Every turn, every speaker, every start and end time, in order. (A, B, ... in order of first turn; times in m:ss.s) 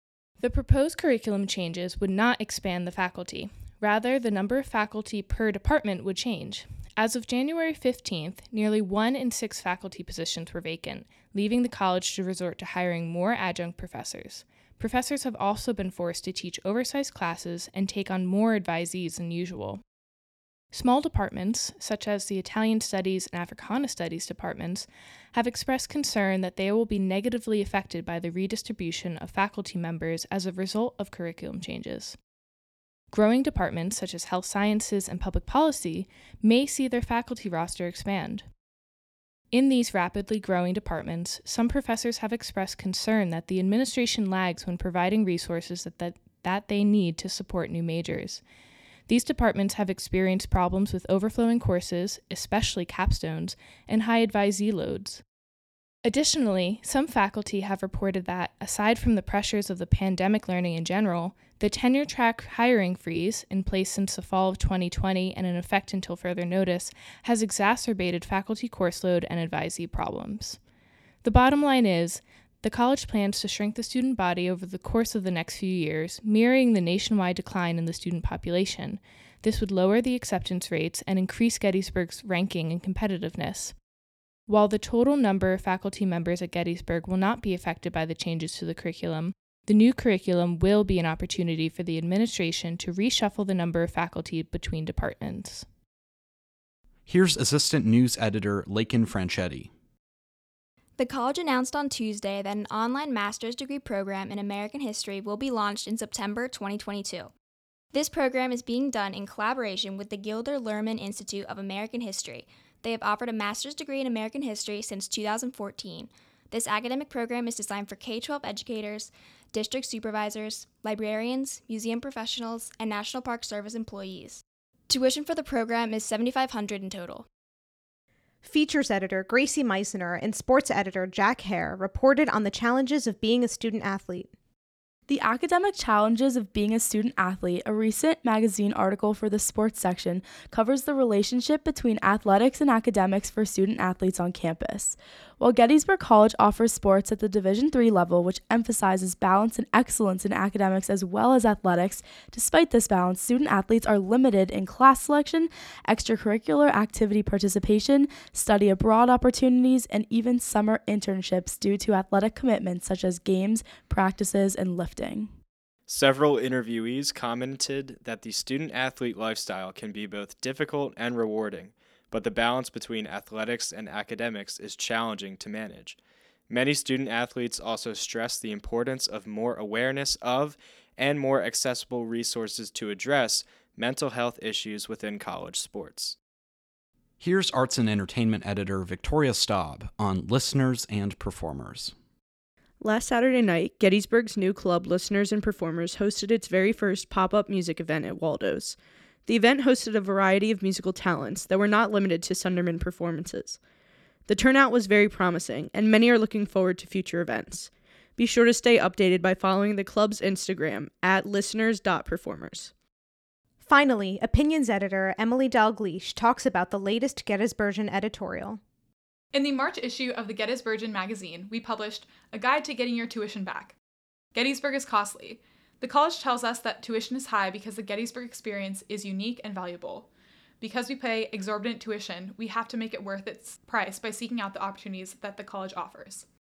0:00.4-0:19.8 A
0:20.7-0:32.2 A
0:33.1-0:38.5 A
0:39.5-0:48.4 A
0:49.1-0:55.2 A
0:56.0-1:10.6 A
1:11.2-1:23.8 A
1:24.5-1:35.6 A
1:37.1-1:39.7 B
1:41.0-1:47.3 C
1:47.9-2:07.3 C
2:08.4-2:14.3 D
2:15.1-2:45.3 E
2:45.9-2:56.0 F
2:56.5-3:06.2 F
3:07.2-3:12.0 B
3:12.8-3:23.6 G
3:24.3-3:32.7 G
3:33.6-3:38.6 D
3:39.3-3:43.8 H
3:44.3-3:50.1 H
3:50.6-3:56.3 H